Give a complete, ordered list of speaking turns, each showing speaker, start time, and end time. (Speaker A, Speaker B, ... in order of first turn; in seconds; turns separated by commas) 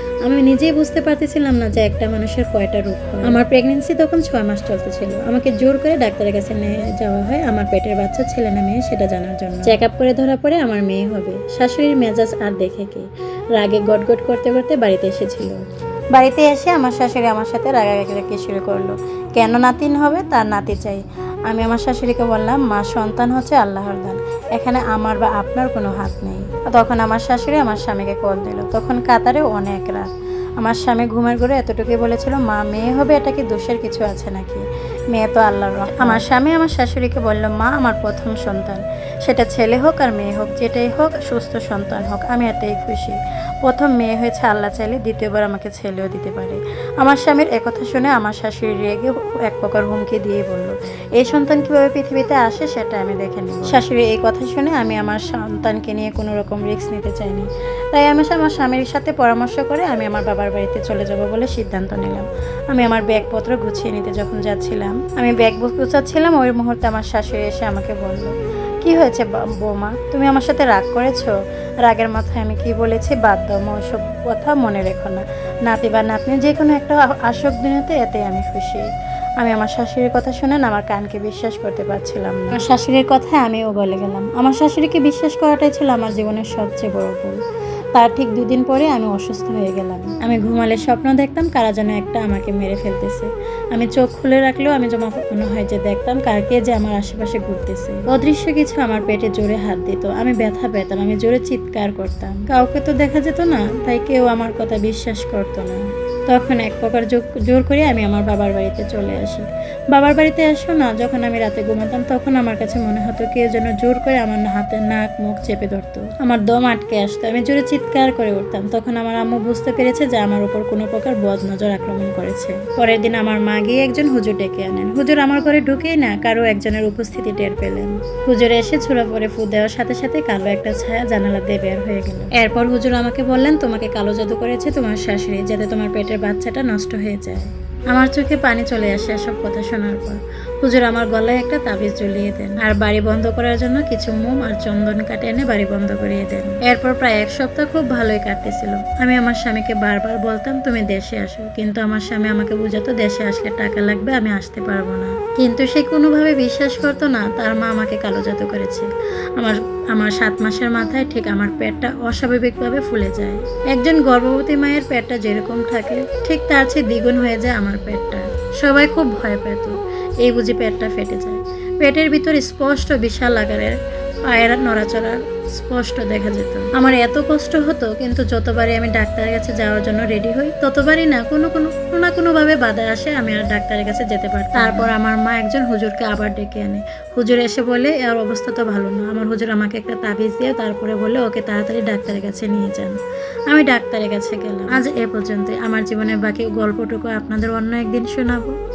Speaker A: 0.2-13.1, Speaker A: 13.6-15.6, Speaker A: 16.1-78.8, Speaker A: 79.4-87.4, Speaker A: 87.9-173.7, Speaker A: 174.3-192.9, Speaker A: 193.5-198.5